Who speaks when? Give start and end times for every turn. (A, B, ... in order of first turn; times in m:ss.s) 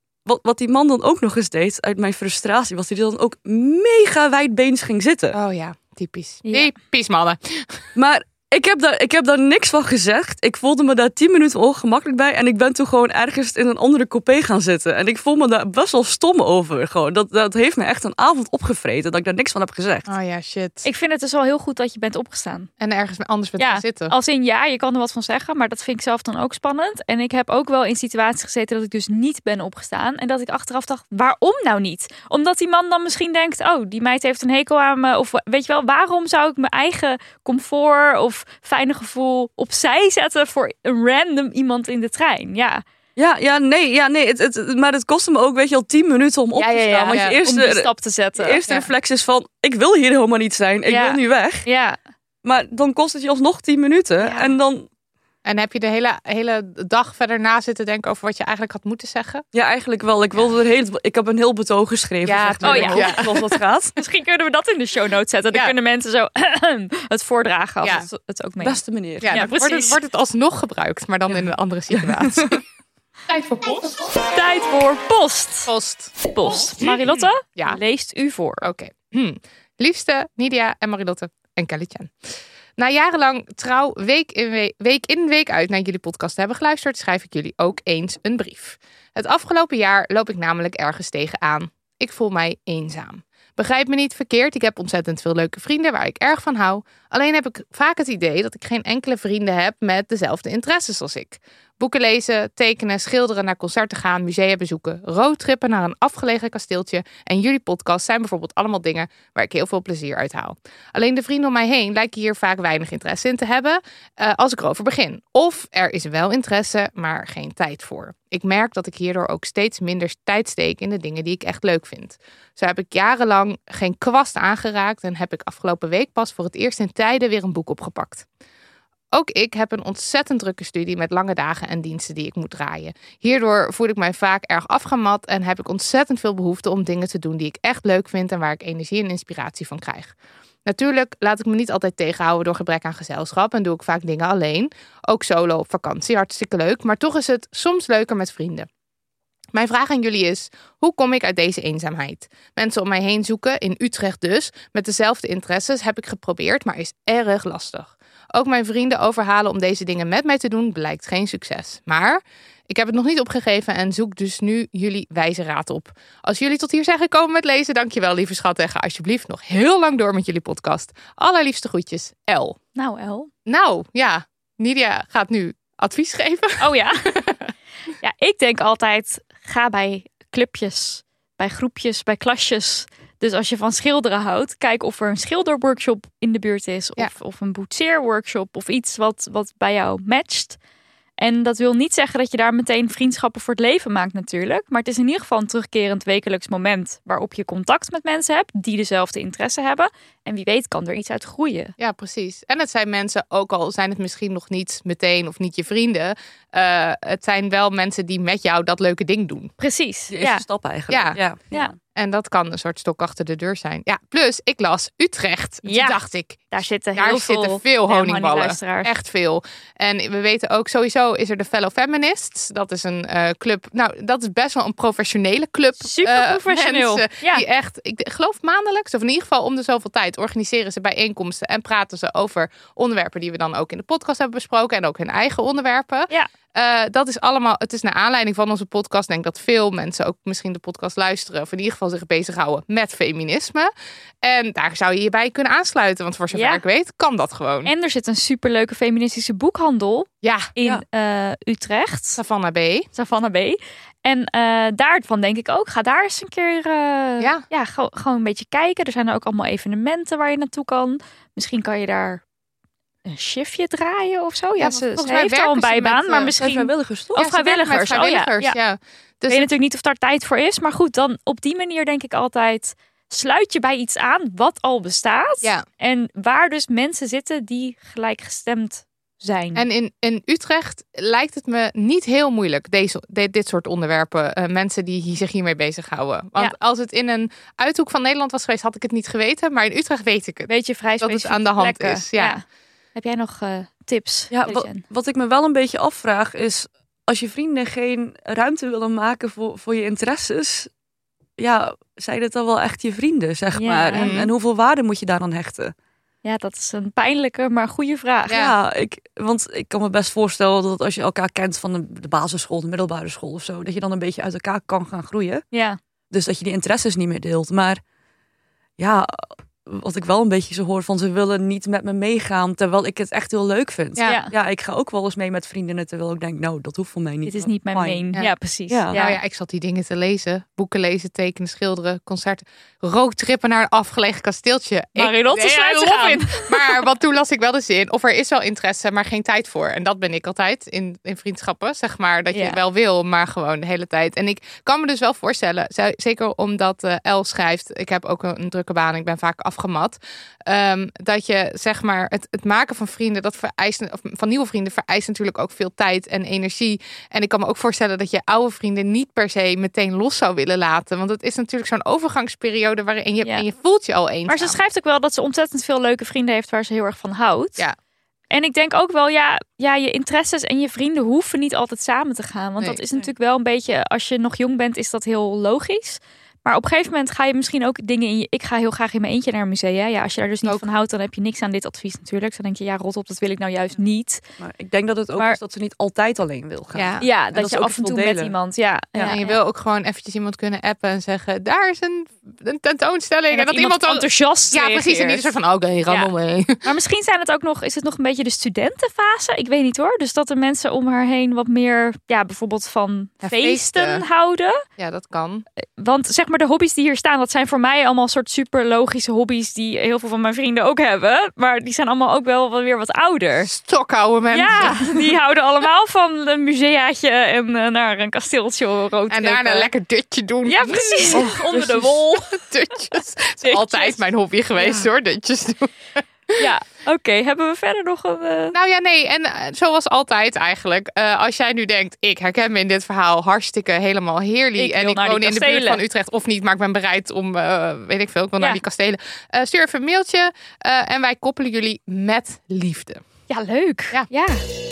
0:00.2-0:05.4 A
0:05.3-0:07.8 B
0:06.4-0:06.7 C
0:07.9-0:20.1 A
0:20.1-0:20.8 B
0:20.8-0:22.7 C
0:22.8-0:24.1 B
0:23.6-0:42.8 C
0:43.2-0:51.6 A
0:46.6-0:48.6 C
0:47.1-0:47.4 B
0:50.9-0:52.0 C
0:52.4-0:54.9 A
0:54.2-0:54.5 C
0:55.4-0:59.4 B
0:59.5-1:04.0 A
1:02.2-1:03.5 B
1:02.6-1:03.3 C
1:04.0-1:10.0 C
1:07.8-1:08.1 B
1:08.6-1:09.4 A
1:09.2-1:12.6 B
1:11.9-1:12.6 A
1:13.3-1:14.0 B
1:14.3-1:15.7 C
1:15.7-1:16.1 B
1:16.2-1:18.6 C
1:16.8-1:17.8 B
1:18.6-1:22.1 B
1:22.8-2:08.2 B
2:09.1-2:20.1 B
2:20.6-2:28.7 B
2:29.5-2:52.6 B
2:52.7-2:53.3 C
2:53.4-2:57.4 B
2:56.6-2:57.1 C
2:58.0-3:10.6 C
3:11.2-3:21.7 C
3:21.8-3:29.5 B
3:29.6-3:30.4 C
3:30.1-3:31.5 A
3:30.9-4:03.7 B
3:35.6-3:38.9 C
3:45.8-3:47.4 C
4:04.2-4:07.7 B
4:06.3-4:06.6 C
4:07.6-4:12.2 C
4:10.2-4:10.5 B
4:12.2-4:12.9 B
4:12.9-4:22.2 C
4:23.0-4:28.6 C
4:24.6-4:26.3 B
4:26.4-4:27.2 A
4:27.2-4:29.5 B
4:29.3-4:39.6 C
4:39.5-4:50.5 B
4:50.5-4:52.4 C
4:51.0-4:52.4 B
4:52.9-4:54.8 C
4:54.3-5:00.7 A
5:01.4-5:05.7 A
5:03.5-5:04.1 C
5:03.9-5:04.3 B
5:06.2-5:08.4 C
5:08.3-5:08.5 B
5:08.3-5:15.4 A
5:15.5-5:15.8 C
5:16.1-5:17.8 A
5:18.8-5:28.0 A
5:24.0-5:24.3 C
5:27.2-5:29.2 C
5:28.7-5:29.0 A
5:28.9-6:04.6 B
5:35.0-5:36.8 C
5:42.3-5:42.6 C
6:04.3-6:07.6 C
6:08.3-6:24.2 C
6:12.6-6:12.8 B
6:24.4-6:28.3 A
6:26.7-6:27.0 B
6:27.0-6:29.4 C
6:29.1-6:36.6 B
6:33.3-6:35.3 C
6:36.6-6:44.6 C
6:43.2-6:44.0 B
6:44.8-6:45.4 B
6:45.8-6:53.5 C
6:53.4-6:55.0 B
6:54.3-6:59.7 C
6:59.1-7:06.4 B
7:00.4-7:02.4 C
7:01.1-7:02.0 A
7:03.4-7:04.0 C
7:06.4-7:08.6 C
7:08.5-7:23.0 B
7:14.6-7:15.8 C
7:23.3-7:24.4 C